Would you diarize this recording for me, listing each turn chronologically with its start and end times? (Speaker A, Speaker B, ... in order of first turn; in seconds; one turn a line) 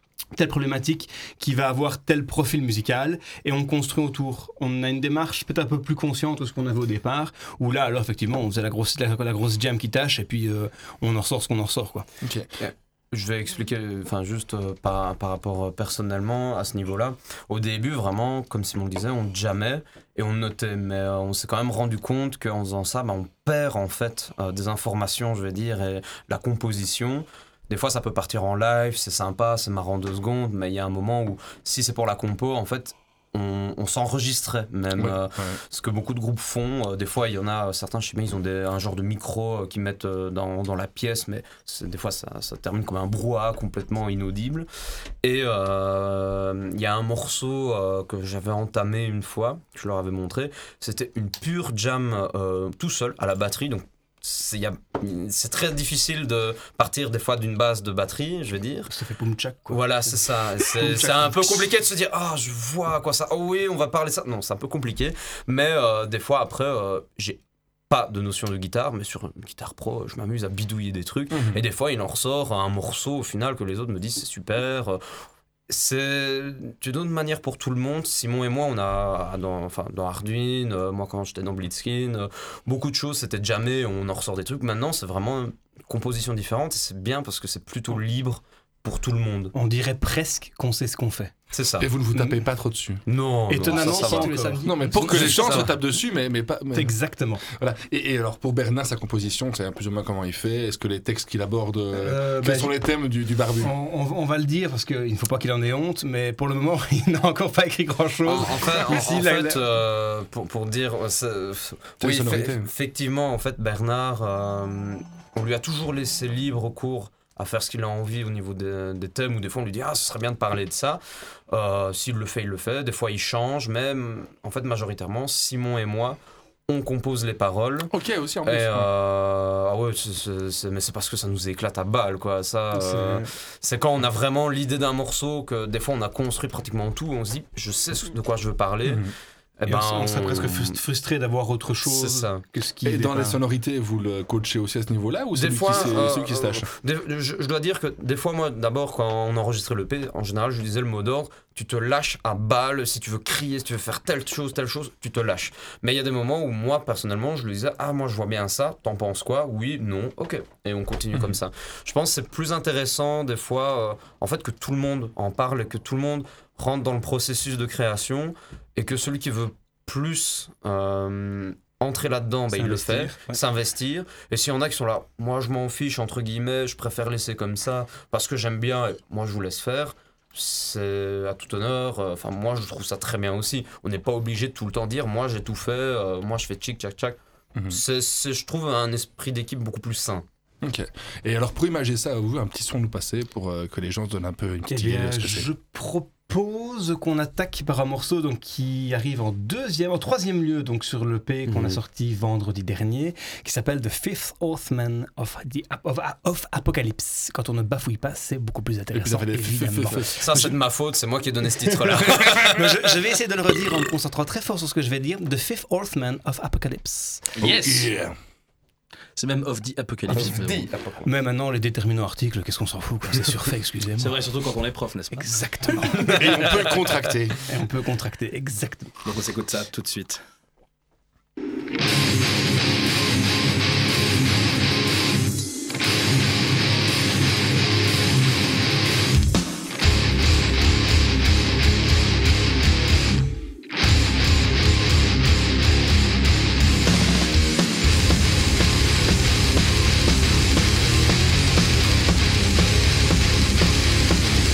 Speaker A: 0.3-12.1
Speaker B: 12.2-12.5
Speaker C: 12.6-44.7
Speaker B: 35.0-35.6
Speaker C: 45.2-58.9
Speaker A: 58.9-61.7
Speaker C: 59.7-75.0
Speaker B: 71.3-71.6
Speaker C: 75.7-89.5
Speaker A: 89.5-91.3
Speaker C: 91.5-91.9
Speaker B: 91.8-93.0
Speaker A: 92.1-92.4
Speaker C: 93.1-94.5
Speaker A: 93.5-95.6
Speaker B: 94.5-97.0
Speaker C: 95.1-95.8
Speaker A: 96.7-97.4
Speaker B: 97.5-103.7
Speaker A: 102.0-102.8
Speaker A: 103.6-109.6
Speaker C: 108.2-127.9
Speaker B: 112.0-112.7
Speaker B: 127.9-128.9
Speaker C: 128.4-139.0
Speaker A: 132.7-133.2
Speaker B: 138.9-139.1
Speaker C: 139.6-140.8
Speaker A: 139.6-143.4
Speaker C: 141.8-142.4
Speaker B: 142.8-146.7
Speaker C: 145.3-187.2
Speaker A: 145.7-146.0
Speaker A: 172.5-173.3
Speaker C: 187.7-190.2
Speaker B: 190.6-195.5
Speaker A: 194.6-210.6
Speaker C: 201.5-201.8
Speaker B: 208.9-210.1
Speaker C: 210.2-212.9
Speaker A: 211.5-217.3
Speaker D: 217.4-217.9
Speaker B: 217.4-218.2
Speaker D: 219.2-220.7
Speaker C: 220.2-221.0
Speaker A: 221.0-224.2
Speaker D: 224.0-225.7
Speaker A: 225.1-226.2
Speaker B: 225.9-227.4
Speaker A: 227.5-228.9
Speaker D: 229.0-230.2